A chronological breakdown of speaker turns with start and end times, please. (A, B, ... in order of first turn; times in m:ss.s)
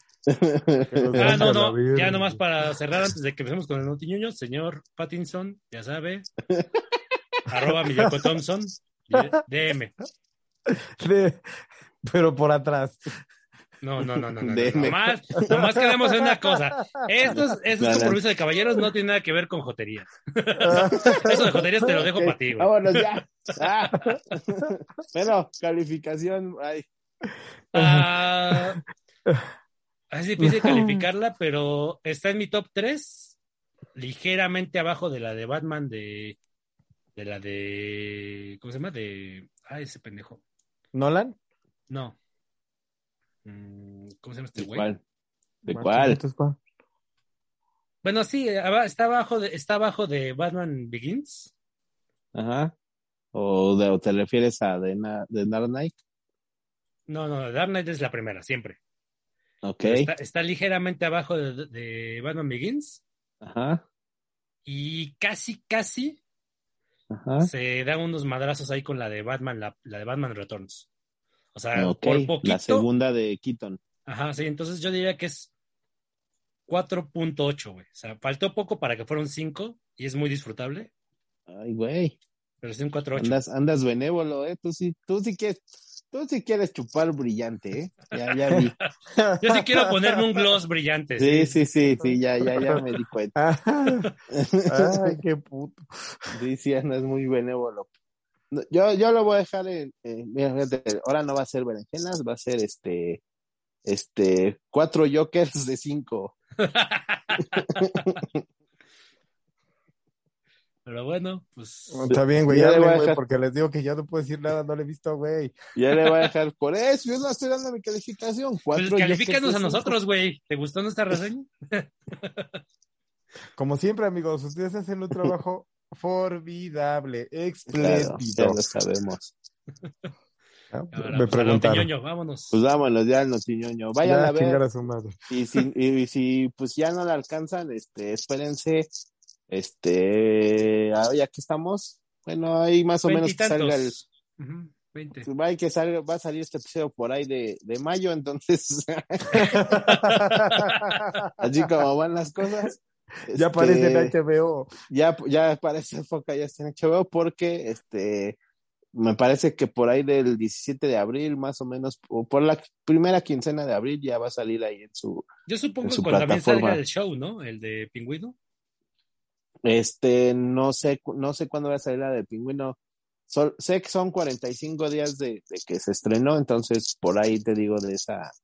0:00.3-0:01.4 A
0:00.9-0:02.4 B
0:01.2-0:06.3 C
0:07.5-0:09.9 C
0:10.6-0:11.4 B
0:12.0-0:13.2 B
0:13.8-0:22.7 C
0:14.4-0:15.5 A
0:15.4-0:17.1 B
0:17.8-0:18.2 A
0:20.6-0:21.5 B
0:20.9-0:26.9 A
0:27.7-0:28.8 C
0:27.7-0:28.6 B
0:30.1-0:33.4 C
0:30.4-0:31.0 B
0:33.9-0:36.4 C
0:37.1-0:40.4 C
0:40.9-0:41.4 B
0:41.9-0:42.2 C
0:43.4-0:44.9 C
0:44.6-0:45.0 A
0:45.6-0:46.2 A
0:45.7-0:46.6 B
0:48.0-0:51.5 C
0:52.3-0:52.7 A
0:53.3-0:56.0 A
0:57.1-0:58.8 C
0:59.6-1:00.1 A
0:59.8-1:03.0 C
1:03.4-1:03.8 A
1:04.6-1:06.2 C
1:07.1-1:07.5 A
1:07.4-1:10.9 C
1:11.5-1:12.9 C
1:11.7-1:13.8 A
1:14.0-1:15.5 C
1:16.7-1:20.9 C
1:21.5-1:22.2 A
1:22.6-1:23.4 C
1:23.2-1:28.8 A
1:29.1-1:30.2 B
1:29.4-1:31.6 C
1:31.2-1:33.4 A
1:32.0-1:32.8 B
1:33.3-1:34.1 B
1:34.3-1:35.2 A
1:34.7-1:36.2 B
1:36.3-1:37.9 A
1:38.5-1:43.2 A
1:43.8-1:46.3 A
1:46.6-1:48.1 C
1:47.7-1:48.4 A
1:50.8-1:52.1 C
1:51.9-1:55.6 B
1:52.1-1:53.2 A
1:55.7-1:59.9 A
1:58.7-2:02.6 C
2:03.6-2:08.6 B
2:07.7-2:09.3 A
2:10.7-2:11.9 B
2:10.9-2:12.6 C
2:12.5-2:14.6 A
2:14.0-2:15.1 B
2:15.3-2:18.9 A
2:19.5-2:24.0 A
2:23.0-2:25.3 C
2:25.3-2:29.6 A
2:29.3-2:31.0 C
2:29.4-2:31.3 B
2:31.4-2:34.1 A
2:33.3-2:34.7 B
2:34.9-2:38.4 A
2:38.9-2:45.3 A
2:45.5-2:48.4 C
2:45.8-2:46.8 A
2:49.6-2:52.8 A
2:53.3-2:58.3 A